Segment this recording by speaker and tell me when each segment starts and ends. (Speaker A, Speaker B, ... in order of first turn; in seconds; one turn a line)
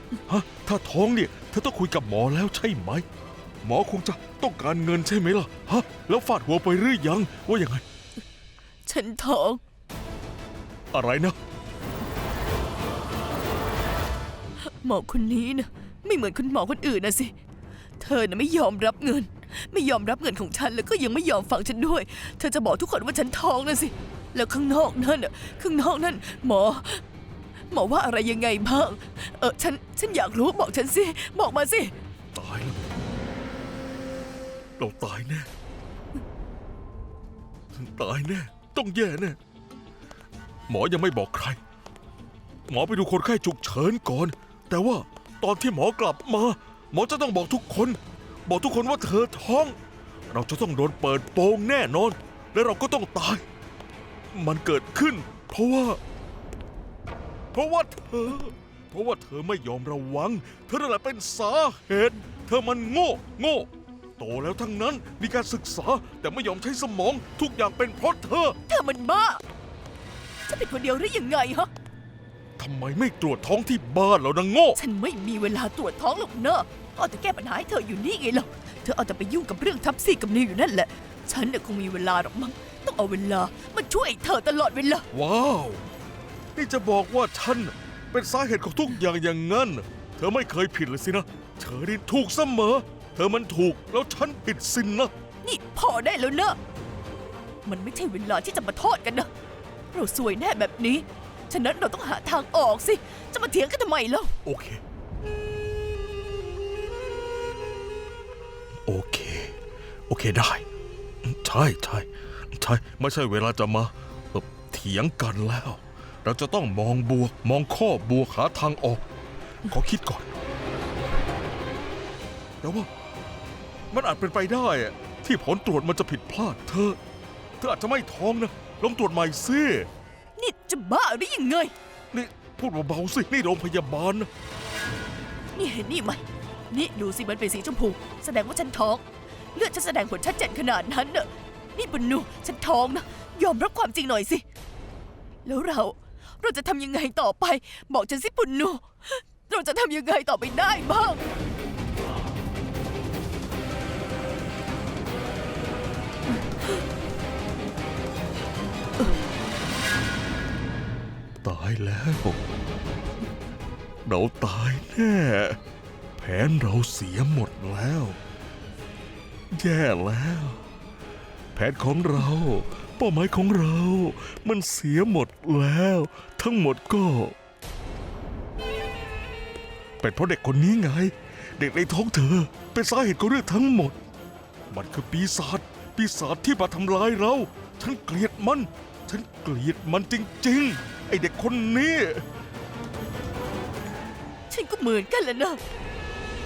Speaker A: 0.3-3.0
Speaker A: 3.6-7.8
Speaker B: 8.8-9.6
Speaker A: 10.9-11.3
Speaker B: 14.7-17.3
Speaker B: 18.0-27.0
Speaker B: 27.7-31.9
Speaker A: 32.3-32.9
Speaker A: 34.8-35.5
Speaker A: 37.7-39.4
Speaker A: 40.7-41.6
Speaker A: 42.7-49.8
Speaker A: 50.3-53.4
Speaker A: 54.3-56.0
Speaker A: 57.5-68.6
Speaker B: 68.7-69.4
Speaker B: 70.5-71.7
Speaker A: 72.6-74.8
Speaker B: 74.8-85.1
Speaker A: 85.1-85.8
Speaker A: 86.5-95.1
Speaker B: 95.4-96.6
Speaker B: 97.6-99.3
Speaker B: 99.9-104.3
Speaker A: 104.4-104.8
Speaker A: 108.8-109.5
Speaker A: 110.1-110.6
Speaker A: 111.2-119.0
Speaker A: 119.6-120.3
Speaker A: 122.6-122.9
Speaker A: 123.9-127.0
Speaker A: 127.6-129.9
Speaker B: 130.4-131.7
Speaker A: 132.1-134.3
Speaker B: 135.6-139.0
Speaker B: 139.5-144.4
Speaker B: 145.4-151.2
Speaker A: 161.4-162.4
Speaker A: 164.1-165.6
Speaker A: 166.2-168.2
Speaker A: 169.5-170.6
Speaker A: 171.5-177.3
Speaker A: 180.0-183.9
Speaker A: 184.7-192.2
Speaker B: 194.5-195.6